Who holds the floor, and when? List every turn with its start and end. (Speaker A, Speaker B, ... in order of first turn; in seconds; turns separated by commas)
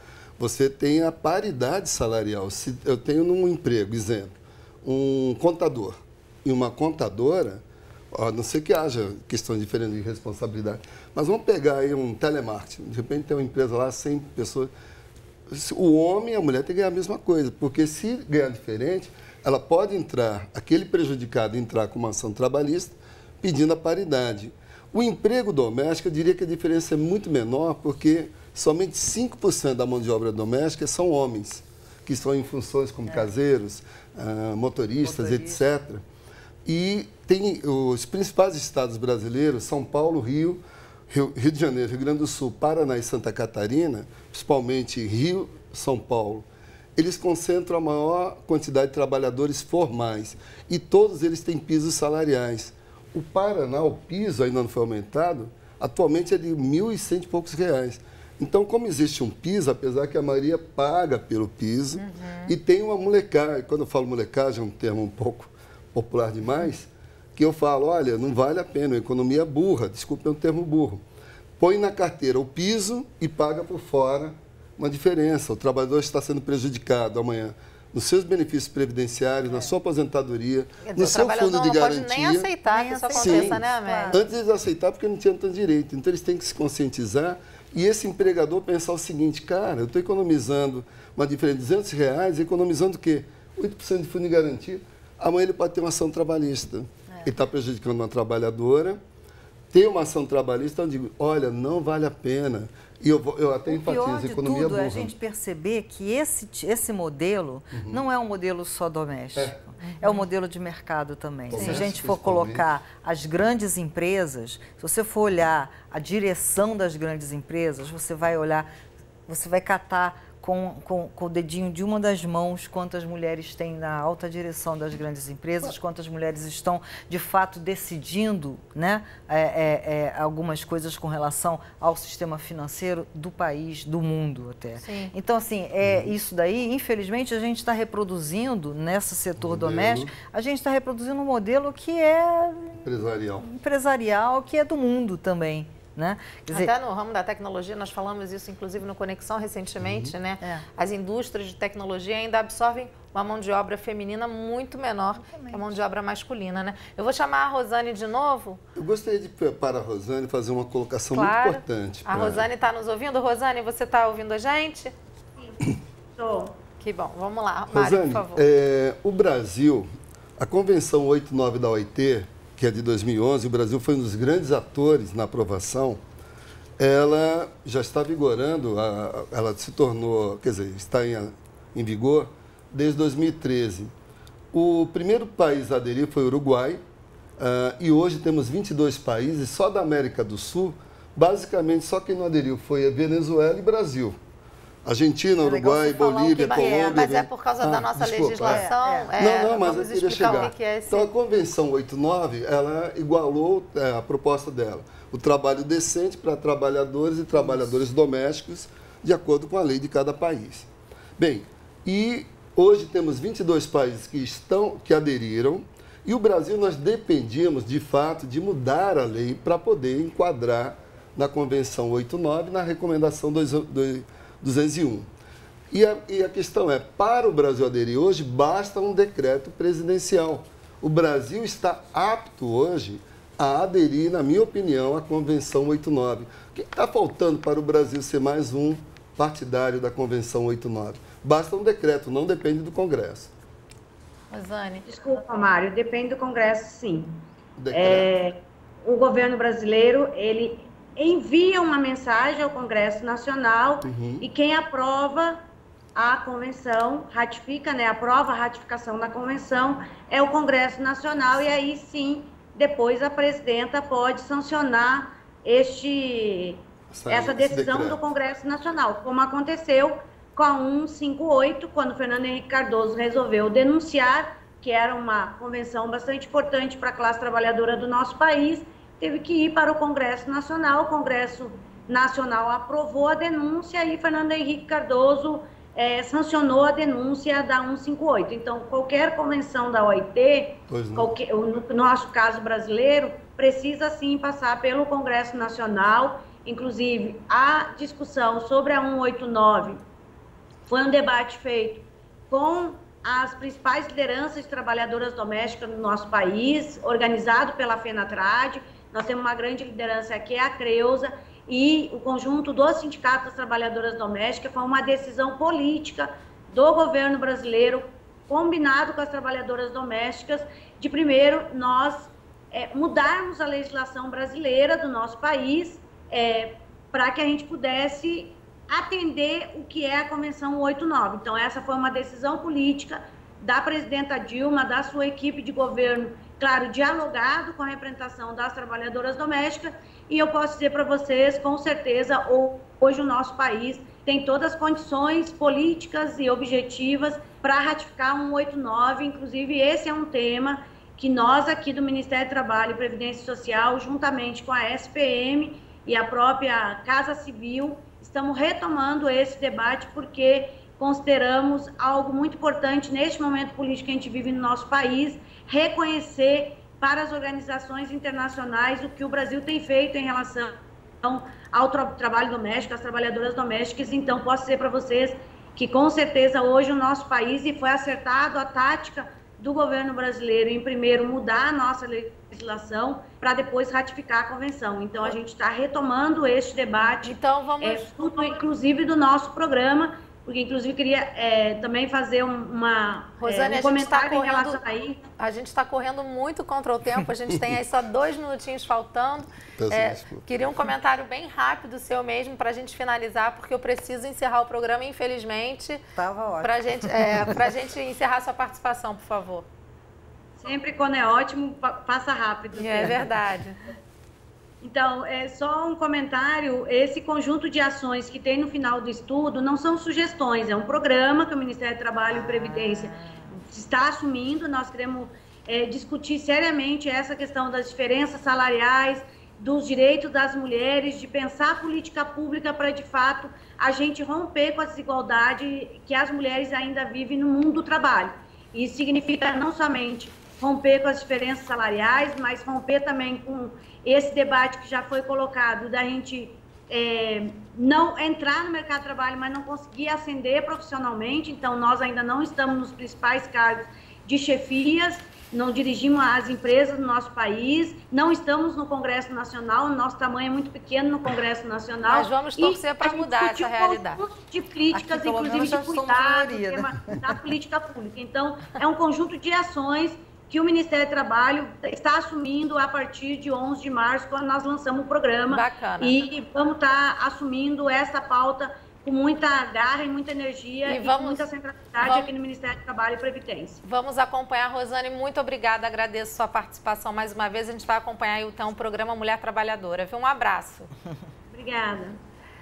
Speaker A: 0.4-14.7, Speaker A: 15.5-36.0, Speaker B: 35.0-35.6, Speaker A: 36.7-71.0, Speaker C: 62.0-62.5, Speaker A: 71.6-82.5, Speaker C: 80.8-84.2, Speaker B: 82.7-84.4, Speaker A: 83.1-99.0, Speaker A: 99.7-105.1, Speaker B: 103.7-118.7, Speaker A: 107.7-108.0, Speaker C: 109.8-110.1, Speaker A: 111.5-112.6, Speaker B: 119.3-142.9, Speaker C: 134.8-135.1, Speaker A: 135.8-136.1, Speaker A: 139.4-140.1, Speaker A: 142.8-143.5, Speaker B: 143.4-146.7, Speaker C: 146.5-158.6, Speaker A: 149.8-150.1, Speaker B: 155.2-155.7, Speaker A: 158.8-162.5, Speaker C: 161.1-164.9, Speaker D: 165.4-166.6, Speaker C: 166.8-168.4, Speaker A: 167.7-176.0, Speaker A: 176.8-183.9, Speaker A: 184.5-186.8, Speaker A: 187.4-194.2, Speaker A: 194.8-225.1, Speaker B: 195.4-197.1, Speaker C: 196.4-201.1, Speaker B: 198.4-199.1, Speaker A: 225.7-243.3, Speaker C: 244.3-244.9, Speaker D: 244.9-255.4, Speaker A: 247.6-248.1, Speaker A: 253.8-254.2, Speaker D: 255.9-299.8, Speaker A: 266.9-268.0, Speaker A: 290.7-291.1, Speaker D: 300.7-395.0, Speaker C: 387.0-387.9, Speaker C: 393.2-394.6, Speaker C: 395.2-405.8, Speaker A: 397.3-397.6, Speaker A: 399.6-400.3, Speaker B: 405.9-407.4, Speaker C: 406.4-409.5, Speaker D: 410.4-413.1, Speaker C: 412.6-413.6, Speaker D: 414.6-483.6, Speaker B: 422.1-423.4, Speaker C: 461.9-464.0, Speaker B: 464.7-467.2, Speaker C: 475.3-476.0, Speaker C: 480.7-481.2, Speaker C: 481.8-482.1, Speaker C: 483.6-490.7, Speaker D: 491.3-492.0